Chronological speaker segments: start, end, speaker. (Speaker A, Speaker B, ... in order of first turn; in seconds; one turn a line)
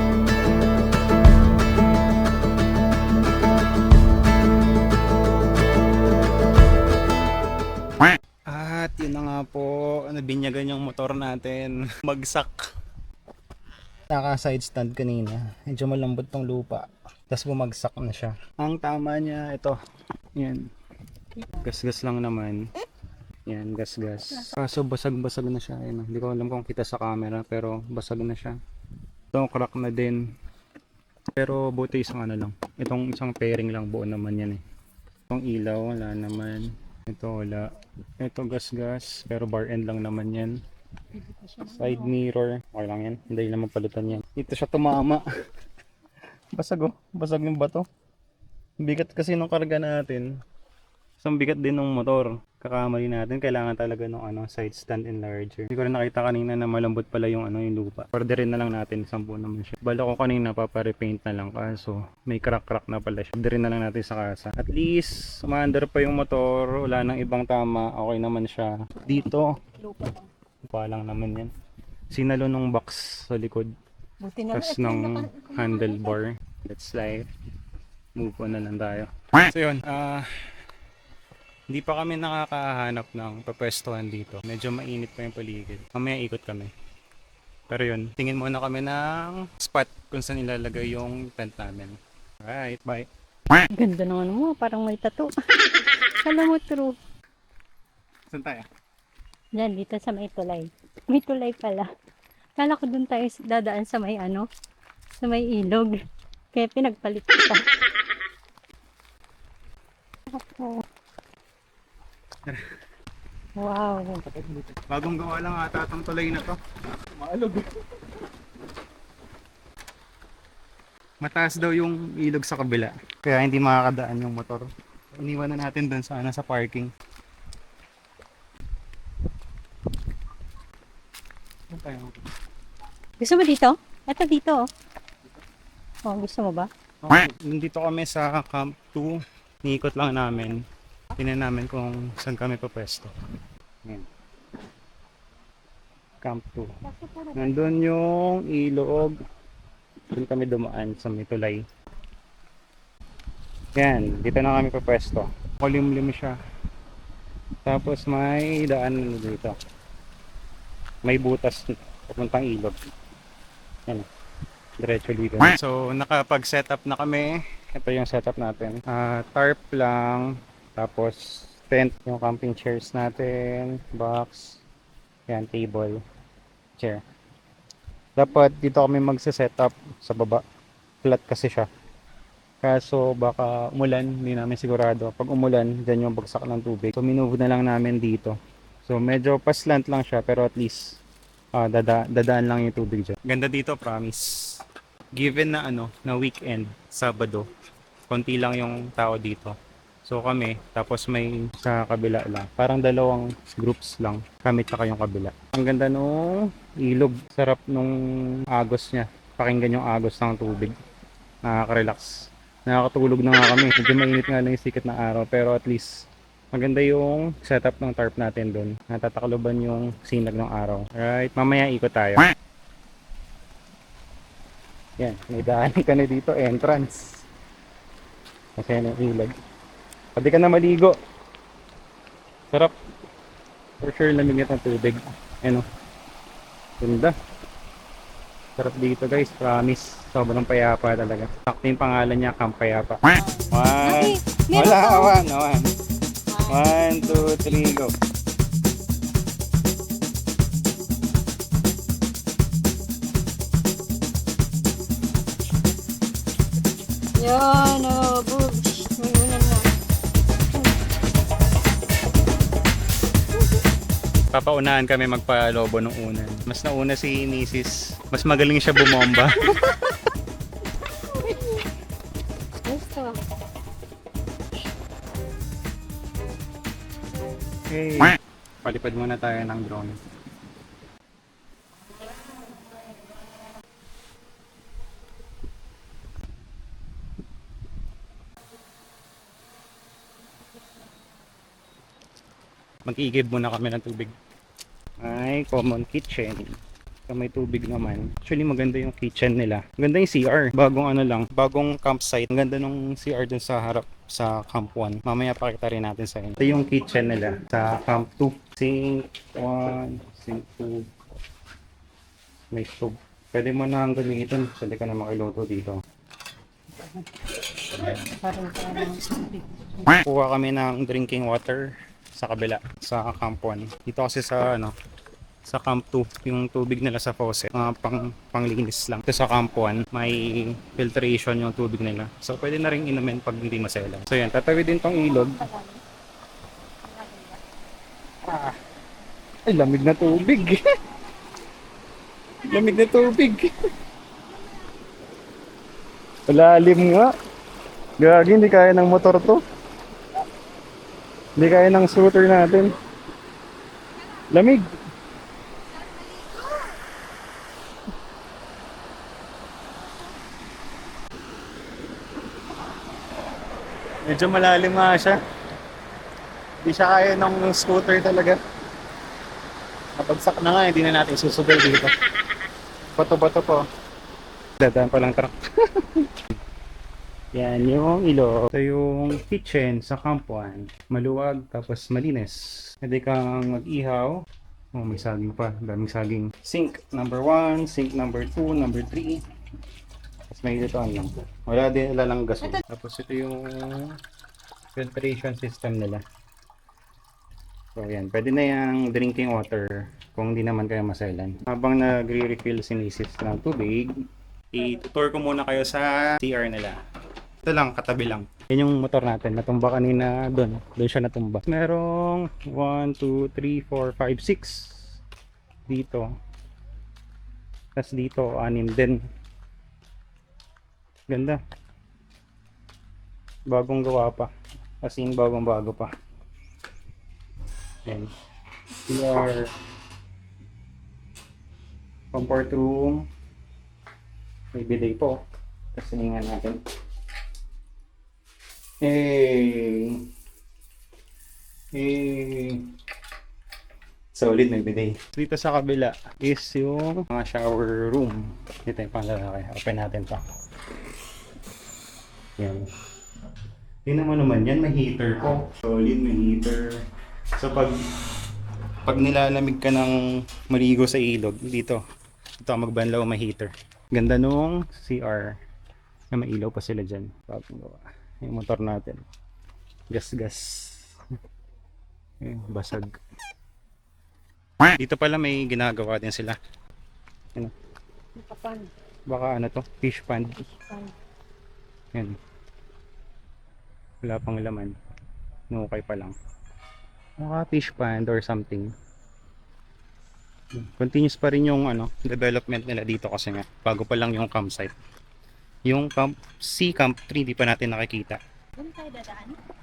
Speaker A: 8.5-12.6
Speaker A: 14.1-19.8
Speaker A: 20.4-20.6
Speaker A: 21.6-22.7
Speaker A: 23.5-28.6
Speaker A: 29.3-30.2
Speaker A: 31.3-34.6
Speaker A: 35.3-40.6
Speaker B: 41.3-42.0
Speaker A: 41.6-45.2
Speaker A: 46.5-47.9
Speaker A: 48.8-50.4
Speaker A: 51.2-69.6
Speaker B: 69.2-70.3
Speaker A: 70.7-71.5
Speaker A: 72.1-73.7
Speaker B: 74.2-76.2
Speaker A: 74.5-77.3
Speaker A: 78.2-80.3
Speaker A: 81.7-86.7
Speaker A: 87.7-93.1
Speaker B: 93.8-95.3
Speaker B: 96.2-96.9
Speaker A: 98.3-98.6
Speaker B: 99.5-101.9
Speaker B: 102.6-104.5
Speaker B: 105.2-106.0
Speaker B: 106.5-107.6
Speaker B: 110.3-110.8
Speaker B: 113.6-114.6
Speaker A: 114.7-117.8
Speaker A: 121.2-126.9
Speaker A: 131.7-132.2
Speaker B: 133.2-134.6
Speaker B: 136.1-136.7
Speaker A: 137.0-140.6
Speaker A: 141.2-143.1
Speaker A: 146.2-146.7
Speaker B: 146.8-147.6
Speaker A: 147.3-149.2
Speaker A: 150.1-151.6
Speaker A: 153.8-156.4
Speaker A: 157.6-159.6
Speaker A: 161.0-162.8
Speaker A: 164.8-174.6
Speaker A: 175.3-176.0
Speaker A: 178.2-180.4
Speaker A: 181.0-181.7
Speaker A: 182.6-191.0
Speaker A: 191.6-194.3
Speaker A: 195.1-197.5
Speaker A: 198.1-199.5
Speaker A: 200.1-207.9
Speaker A: 208.5-210.7
Speaker A: 211.4-212.1
Speaker A: 212.7-222.3
Speaker A: 225.0-227.2
Speaker A: 228.6-229.3
Speaker A: 230.2-230.9
Speaker A: 233.8-235.6
Speaker A: 236.8-237.1
Speaker A: 238.6-245.7
Speaker B: 243.2-245.1
Speaker B: 246.3-247.4
Speaker A: 246.5-247.9
Speaker B: 257.2-259.7
Speaker A: 264.3-269.6
Speaker B: 269.4-270.1
Speaker B: 270.9-271.6
Speaker B: 272.6-273.2
Speaker A: 277.7-280.0
Speaker A: 292.9-294.1
Speaker A: 295.0-296.6
Speaker A: 297.1-310.9
Speaker A: 312.5-315.8
Speaker B: 317.8-319.9
Speaker A: 320.0-324.7
Speaker A: 325.4-335.5
Speaker B: 335.2-335.8
Speaker B: 336.8-337.4
Speaker A: 338.2-338.5
Speaker A: 339.5-340.6
Speaker A: 342.4-343.5
Speaker A: 346.3-347.1
Speaker A: 348.0-349.4
Speaker A: 351.4-352.7
Speaker A: 354.3-354.6
Speaker B: 355.9-356.7
Speaker A: 364.1-365.2
Speaker A: 366.6-368.4
Speaker A: 370.0-371.9
Speaker A: 373.0-373.6
Speaker A: 374.6-376.1
Speaker A: 377.3-384.2
Speaker A: 384.7-389.2
Speaker A: 390.3-393.9
Speaker A: 394.7-396.0
Speaker A: 397.8-403.9
Speaker A: 404.5-406.8
Speaker A: 407.4-414.8
Speaker A: 415.7-416.1
Speaker A: 417.8-419.0
Speaker A: 421.1-421.4
Speaker A: 423.5-424.3
Speaker A: 424.8-425.9
Speaker A: 427.9-428.1
Speaker A: 428.9-429.5
Speaker A: 432.1-433.0
Speaker A: 434.5-435.2
Speaker A: 435.7-436.6
Speaker A: 438.8-440.0
Speaker A: 441.7-442.6
Speaker A: 444.1-450.2
Speaker A: 452.4-452.7
Speaker A: 453.9-456.8
Speaker A: 457.4-457.8
Speaker A: 458.8-461.8
Speaker A: 462.4-465.3
Speaker A: 466.1-469.0
Speaker A: 469.9-470.9
Speaker A: 472.2-472.9
Speaker A: 474.8-476.4
Speaker B: 478.2-478.7
Speaker A: 479.1-480.4
Speaker A: 484.0-484.8
Speaker A: 485.5-486.1
Speaker A: 487.2-488.7
Speaker A: 490.5-494.7
Speaker A: 495.6-498.2
Speaker B: 498.6-499.4